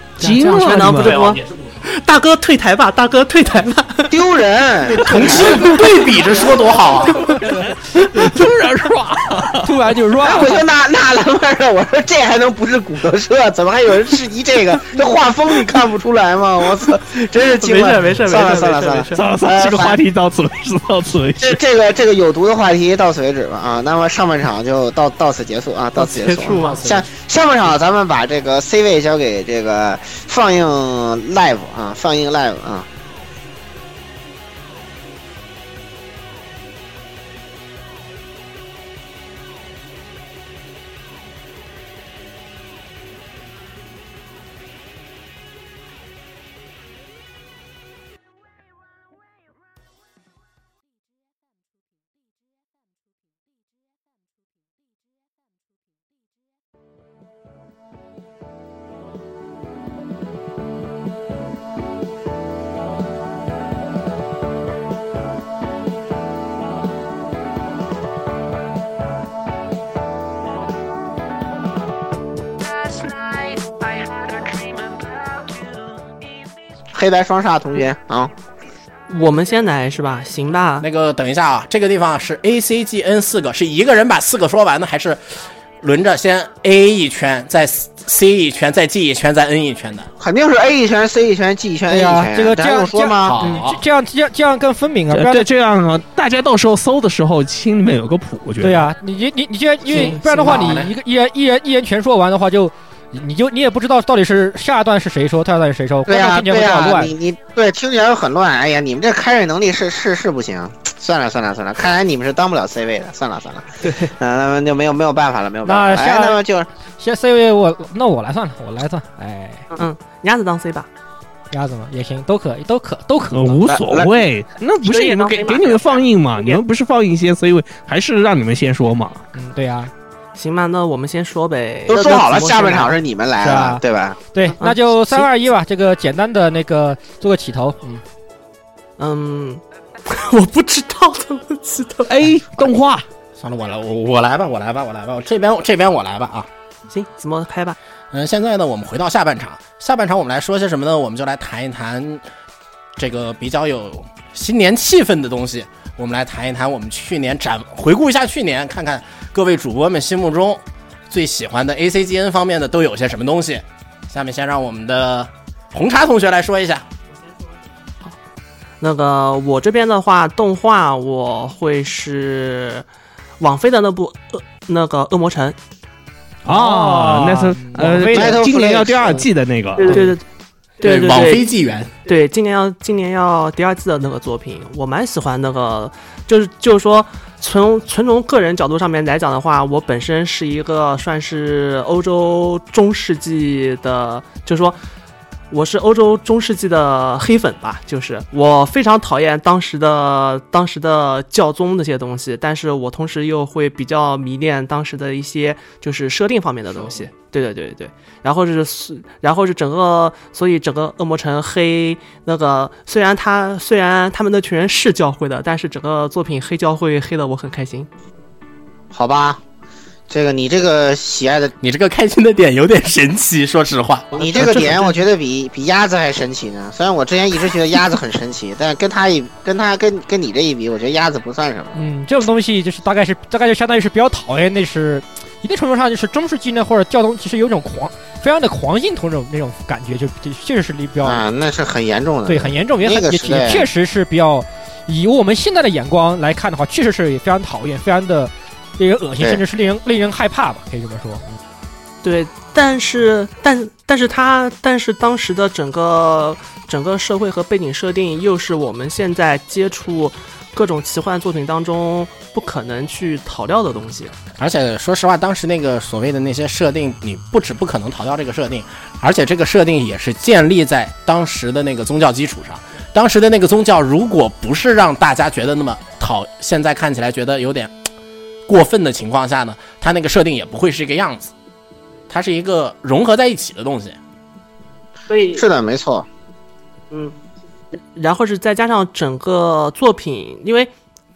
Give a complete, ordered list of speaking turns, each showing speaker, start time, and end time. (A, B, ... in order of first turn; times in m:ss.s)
0:00.2-0:01.2 A
0:00.2-0:04.1 B
0:04.1-0:05.8 C
0:05.0-0:07.2 D
0:05.4-0:06.0 B
0:07.1-0:07.4 B
0:07.2-0:10.2 A
0:09.6-0:10.6 E
0:10.2-0:20.0 C
0:17.4-0:19.3 B
0:19.1-0:21.6 A
0:21.4-0:32.9 C
0:26.0-0:27.0 B
1:16.9-1:18.3 C
1:19.1-1:20.8 B
1:20.8-1:25.2 D
1:25.8-1:30.1 D
1:30.2-1:33.4 C
1:31.9-1:35.5 E
1:33.2-1:33.8 D
1:35.1-1:38.9 A
1:38.6-1:47.1 E
1:39.9-1:40.8 C
1:40.0-1:40.9 D
1:46.1-1:56.7 C
1:53.8-1:54.1 B
1:55.6-1:56.4 E
1:57.0-1:59.7 E
1:59.8-2:00.9 B
2:01.5-2:03.6 E
2:03.3-2:09.2 A
2:03.7-2:04.1 C
2:04.8-2:06.6 B
2:09.3-2:09.9 E
2:10.4-2:12.9 B
2:11.9-2:14.2 C
2:13.4-2:13.8 E
2:14.3-2:18.0 E
2:14.6-2:15.2 B
2:19.0-2:22.3 B
2:22.1-2:23.0 A
2:23.4-2:26.5 D
2:26.9-2:27.8 B
2:28.1-2:32.2 D
2:33.0-2:46.8 D
2:48.8-2:52.8 B
2:53.4-2:55.6 B
2:56.4-3:00.1 A
2:56.5-2:58.4 E
2:58.1-2:59.3 C
2:59.8-3:00.2 B
3:00.8-3:01.5 B
3:00.8-3:01.9 D
3:02.0-3:14.8 B
3:15.5-3:37.9 B
3:38.9-3:39.4 C
3:40.1-3:41.5 C
3:41.6-3:44.1 D
3:44.1-3:45.0 B
3:44.2-3:51.8 C
3:51.7-4:01.2 E
4:01.0-4:03.7 C
4:02.2-4:11.2 E
4:12.0-4:24.2 B
4:24.4-4:37.7 D
4:38.5-4:41.3 D
4:42.1-4:44.0 D
4:45.1-4:45.4 B
4:45.3-4:46.1 C
4:47.9-4:50.7 B